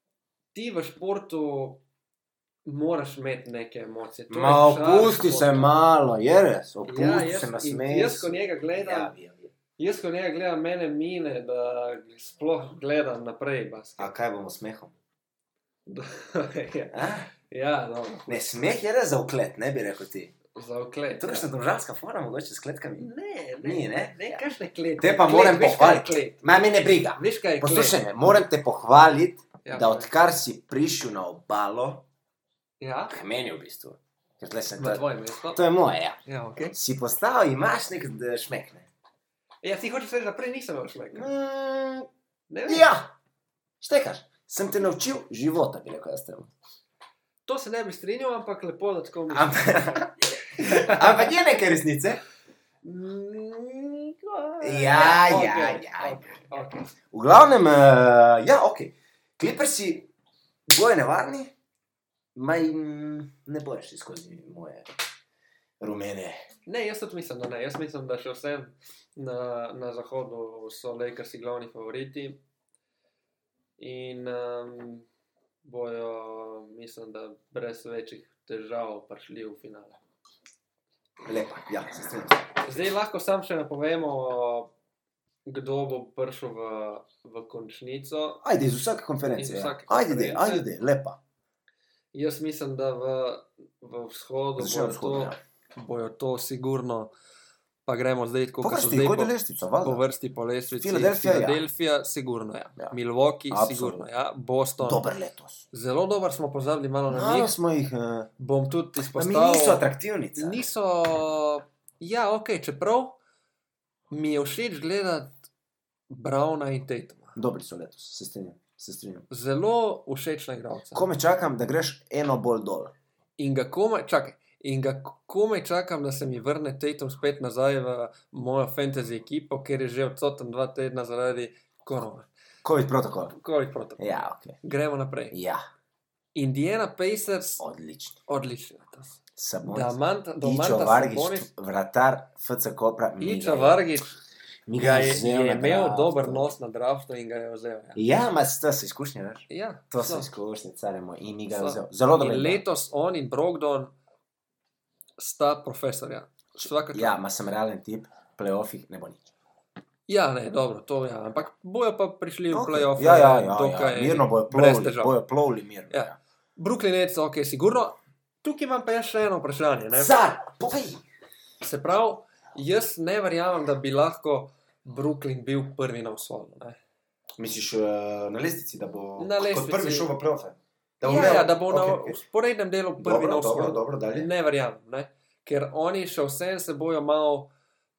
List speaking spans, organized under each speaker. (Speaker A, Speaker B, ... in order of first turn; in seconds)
Speaker A: 0.5-1.8, 2.6-5.7, 6.9-9.1, 9.8-14.1, 15.9-18.7, 20.5-21.5, 23.0-26.4, 27.2-28.0, 29.6-30.1, 32.8-33.2, 34.8-35.6, 36.2-36.8, 39.6-41.3, 42.5-42.9, 47.5-51.4, 52.8-56.9, 66.7-72.4, 73.8-75.1, 75.6-80.0, 82.6-84.7, 85.5-88.4, 89.4-90.7, 92.1-97.1, 97.9-105.0, 105.7-107.5, 108.4-113.2, 114.1-115.4, 116.1-117.3, 119.3-121.1, 123.4-132.3, 133.3-134.1, 134.6-135.3, 136.3-137.6, 138.3-141.5, 143.2-144.2, 144.8-148.0, 149.5-150.3, 151.5-153.9, 155.2-157.2, 160.1-165.2, 165.9-170.1, 171.6-176.8, 179.2-180.1, 181.0-187.5
Speaker B: 4.3-9.5, 14.0-14.9, 16.9-17.3, 18.3-20.3, 21.2-23.1, 23.6-24.4, 25.0-32.1, 33.1-36.2, 36.7-38.9, 41.1-42.1, 42.7-43.1, 43.8-46.5, 49.3-52.2, 54.6-56.4, 57.1-60.1, 60.7-61.5, 62.4-64.9, 65.8-66.4, 81.2-82.5, 88.4-91.2, 94.6-95.4, 98.6-100.0, 100.8-101.6, 103.5-104.1, 104.8-105.7, 107.1-108.3, 109.1-110.7, 117.3-119.3, 120.9-122.9, 132.6-133.4, 134.0-134.6, 135.3-135.6, 137.6-138.2, 139.4-143.9, 144.7-146.6, 147.9-152.6, 156.7-159.3, 162.5-166.2, 169.9-171.0, 177.4-182.2, 183.0-184.3